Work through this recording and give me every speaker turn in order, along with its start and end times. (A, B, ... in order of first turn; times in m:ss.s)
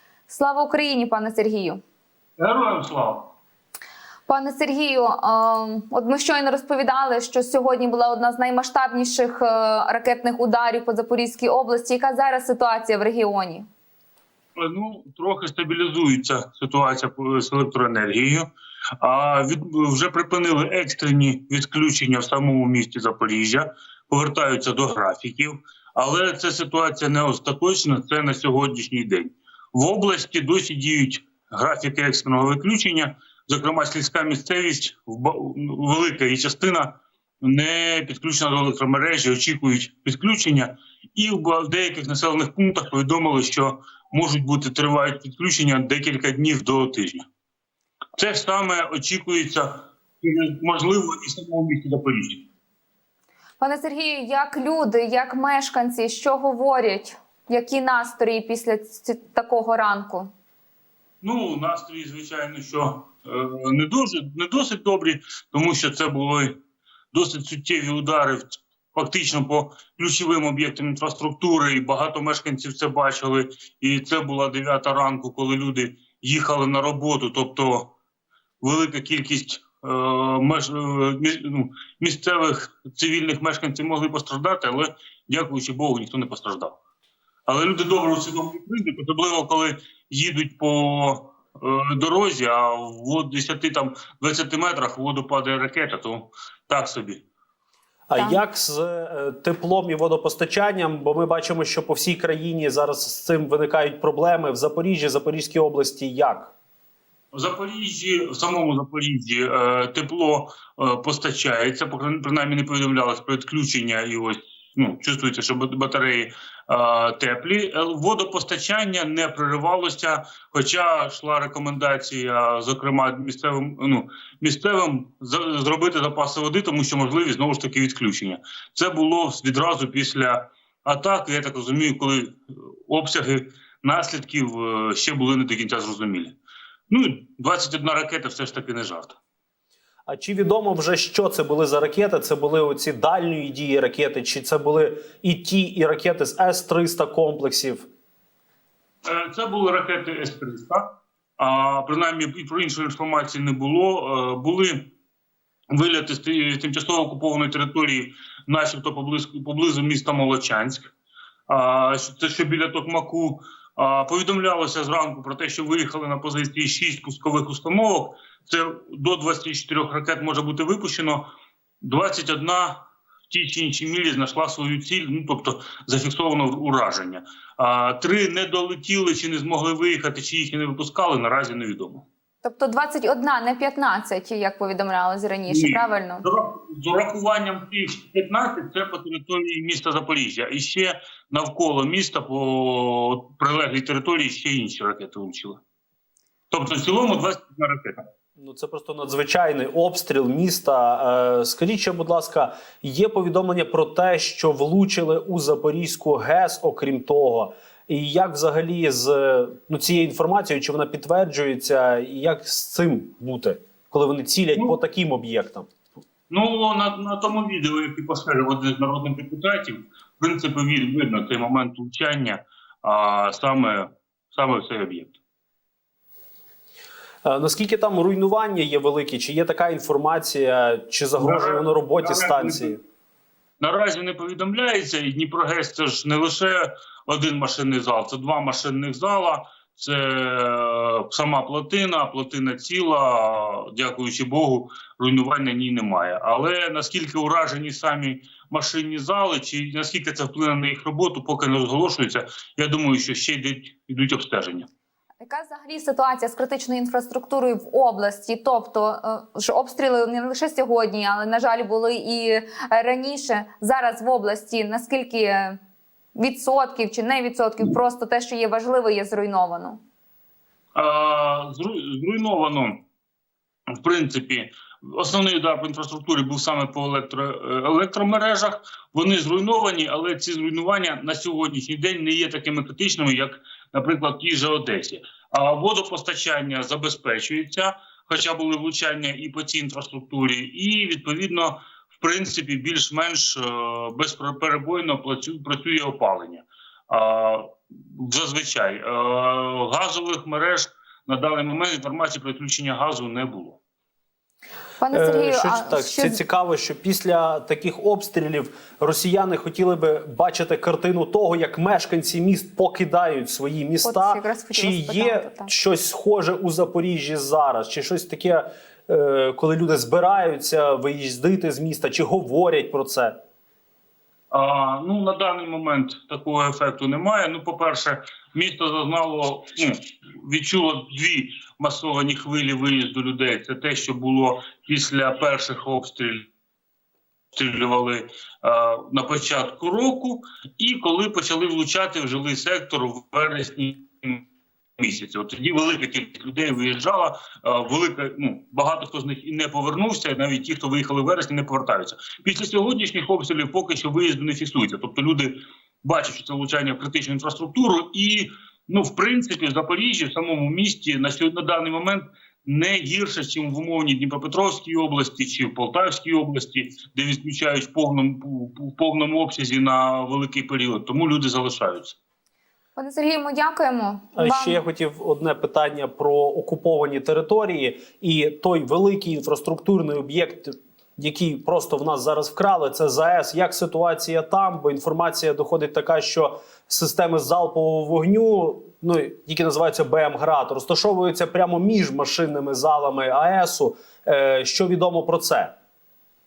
0:00.3-0:01.8 A
0:02.4-0:03.3 B
0:04.3-0:13.7 A
0:14.6-0:18.5 B
0:19.0-0:47.3 B
0:48.2-0:52.5 B
0:53.6-1:00.3 A
1:01.2-1:06.6 B
1:07.1-1:17.9 B
1:18.6-1:26.8 B
1:27.5-1:37.2 B
1:38.1-1:46.5 C
1:47.3-2:16.4 B
2:16.9-2:19.2 B
2:20.1-2:27.9 C
2:29.0-2:34.9 B
2:35.7-2:40.9 B
2:41.5-2:51.3 B
2:51.8-3:02.0 B
3:02.4-3:06.2 A
3:05.5-3:15.6 B
3:16.5-3:18.1 B
3:18.4-3:35.7 C
3:36.3-3:45.2 B
3:47.2-3:52.8 C
3:51.2-3:52.8 B
3:53.6-4:14.7 B
4:15.2-4:25.6 A
4:26.2-4:29.8 A
4:30.8-4:32.8 B
4:33.7-5:03.6 B
5:04.8-5:06.2 A
5:04.9-5:23.2 C
5:13.8-5:15.5 A
5:24.3-5:36.3 B
5:37.3-5:44.2 B
5:44.8-6:12.0 B
6:12.8-6:14.6 A
6:14.2-6:35.5 C